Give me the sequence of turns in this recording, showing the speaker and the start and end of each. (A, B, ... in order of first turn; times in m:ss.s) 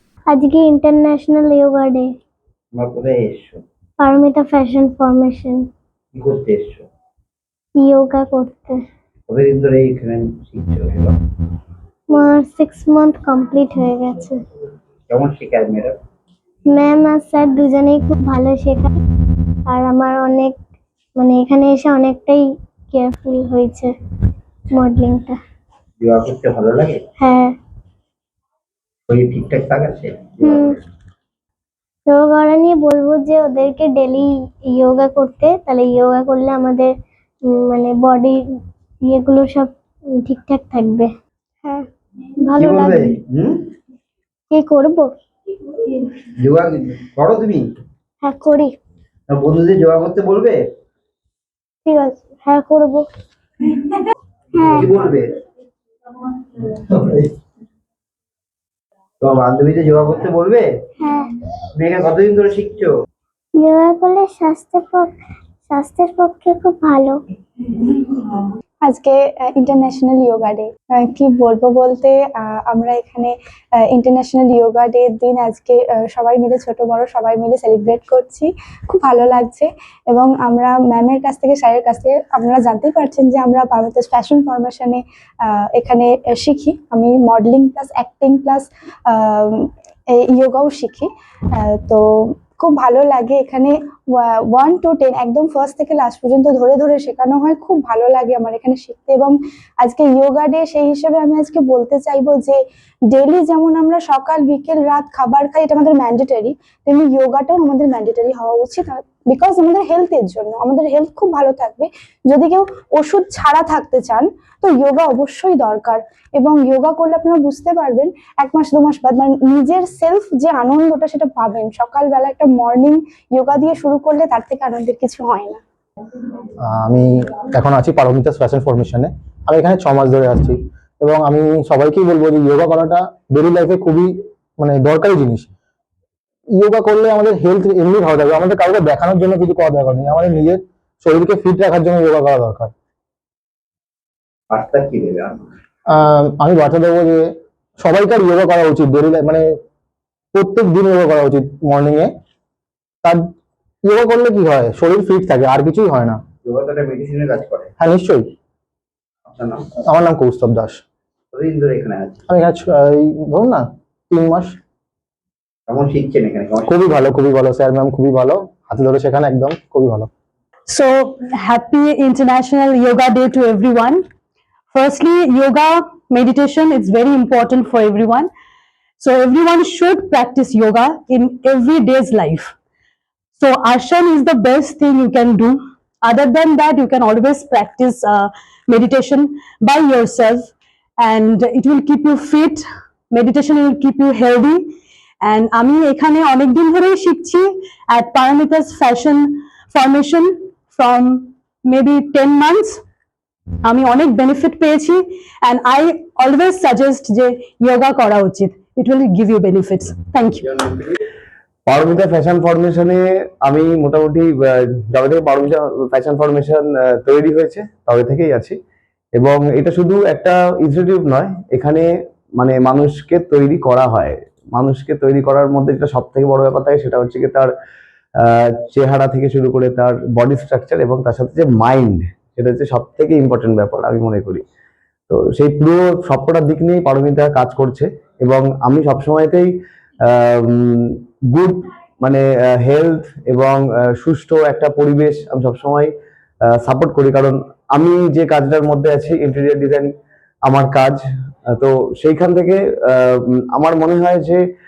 0:00.3-0:02.1 A
0:02.8-0:03.6 B
0:04.0-0:05.7 A
0:06.2-0:06.8 B
0:07.8-0:08.8 A
0:09.3-0:11.2 B
0:12.1-0:14.4 A
0:15.1-0:16.0 B
0:16.7-0:19.0 A
0:19.7-0:20.6 A
0:21.2-0:23.9 A
0:24.7-0:25.4 A
0:26.0-0:27.0 B
0:27.2-0:27.6 A
0:29.1-0:30.8 B
0:30.4-0:30.8 A
0:32.1-0:36.9 A
0:37.4-0:38.4 A
0:39.0-0:41.1 A
0:42.4-0:43.1 A
0:42.6-0:43.5 B
0:44.5-0:45.1 A
0:46.4-0:47.7 B
0:48.2-0:48.8 A
0:49.3-0:50.6 B
0:51.8-0:53.1 A
0:54.5-0:54.9 A
0:54.8-0:55.3 B
0:56.9-0:57.3 B
0:59.2-1:00.7 B
1:01.0-1:01.3 A
1:01.8-1:02.9 B
1:03.5-1:05.1 A
1:05.7-1:07.2 A
1:08.8-1:13.3 C
1:13.9-1:42.6 C
1:43.1-2:05.6 C
2:06.6-2:15.5 D
2:16.5-2:22.7 D
2:24.5-2:25.4 B
2:25.9-2:27.2 D
2:27.8-2:29.5 D
2:30.3-2:32.1 D
2:33.8-2:36.2 D
2:36.4-2:37.7 B
2:37.8-2:38.3 D
2:39.2-2:39.6 B
2:39.8-2:40.8 D
2:41.3-2:42.2 B
2:42.3-2:44.5 D
2:45.7-2:46.9 B
2:46.7-2:50.1 D
2:50.7-2:54.0 E
2:54.7-2:58.3 E
2:59.0-3:02.5 E
3:03.4-3:22.8 E
3:23.6-3:30.6 E
3:31.7-3:38.6 F
3:39.2-3:47.5 F
3:48.2-3:54.4 F
3:55.1-3:59.5 F
4:00.0-4:05.9 F
4:06.6-4:09.9 F
4:10.5-4:14.4 F